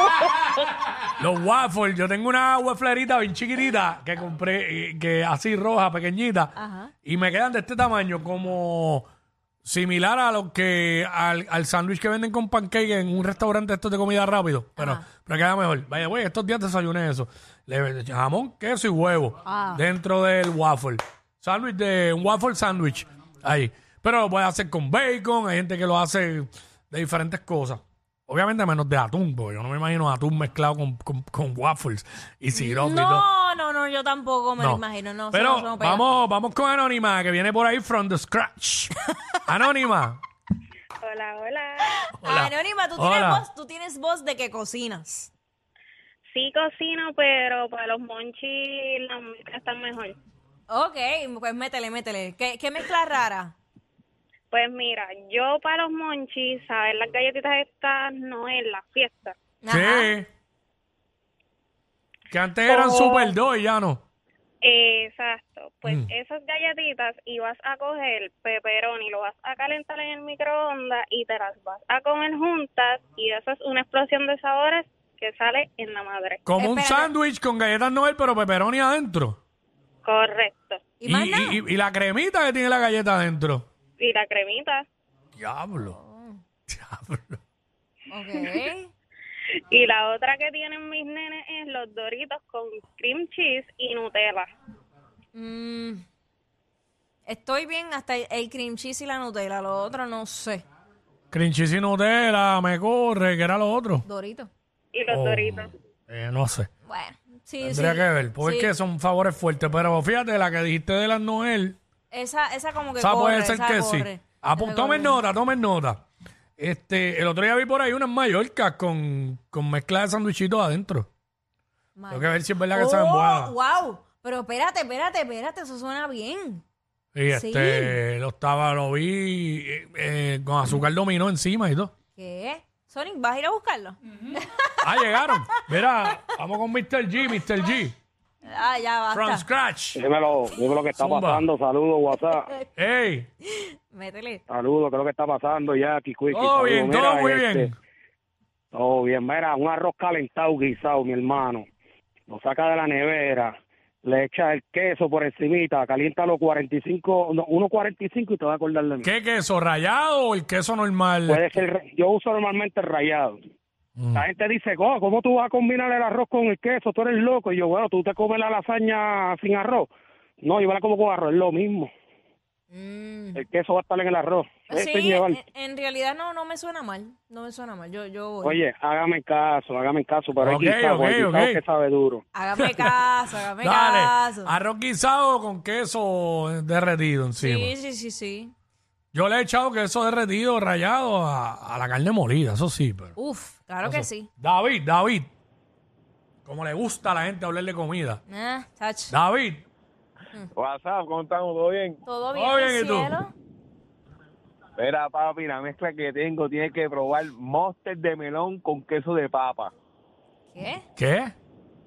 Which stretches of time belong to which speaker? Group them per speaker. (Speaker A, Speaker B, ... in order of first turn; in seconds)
Speaker A: 1.2-6.5, 7.0-9.1, 9.6-33.3, 34.6-38.9, 39.5-40.2, 42.2-43.5, 59.7-60.3, 62.3-64.0, 65.8-66.1, 76.5-79.4, 81.1-83.7, 85.4-86.0, 86.7-87.4, 101.3-104.1, 105.1-106.7, 107.6-111.8, 113.0-116.0, 116.6-121.1, 122.1-123.5, 127.2-131.9, 134.8-137.9, 139.1-140.0, 140.9-141.5, 142.8-143.3, 146.3-147.8, 159.0-161.6, 164.0-164.2, 180.4-181.6, 182.6-183.0, 183.6-187.7, 189.1-193.1, 193.8-195.3, 196.4-198.2, 199.1-199.7, 202.3-203.1, 211.0-211.3
Speaker B: 6.6-6.9, 14.8-15.1, 19.4-19.8, 32.5-36.1, 41.9-45.3, 50.7-53.5, 59.6-60.1, 76.5-77.1, 81.0-81.6, 85.8-86.4, 88.1-88.9, 95.3-96.0, 97.3-100.6, 104.0-104.5, 106.8-108.7, 112.1-115.2, 122.0-126.6, 127.3-128.0, 132.2-136.3, 138.4-139.5, 142.2-142.7, 143.4-144.4, 172.7-173.4, 174.7-178.6, 182.3-184.5, 187.4-188.5, 193.2-194.3, 198.3-199.2, 202.1-203.3, 210.5-210.8
Speaker C: 41.0-41.9, 46.3-50.2, 54.5-59.4, 62.7-63.3, 64.6-76.4, 80.0-80.9, 84.0-84.9, 89.7-94.5, 104.9-105.7
Speaker D: 139.9-142.5, 144.5-147.7, 148.7-151.7, 152.3-159.1, 161.3-163.4, 164.1-169.9, 170.4-171.9, 173.3-175.4, 178.4-182.2
Speaker E: 200.6-202.0, 204.8-209.7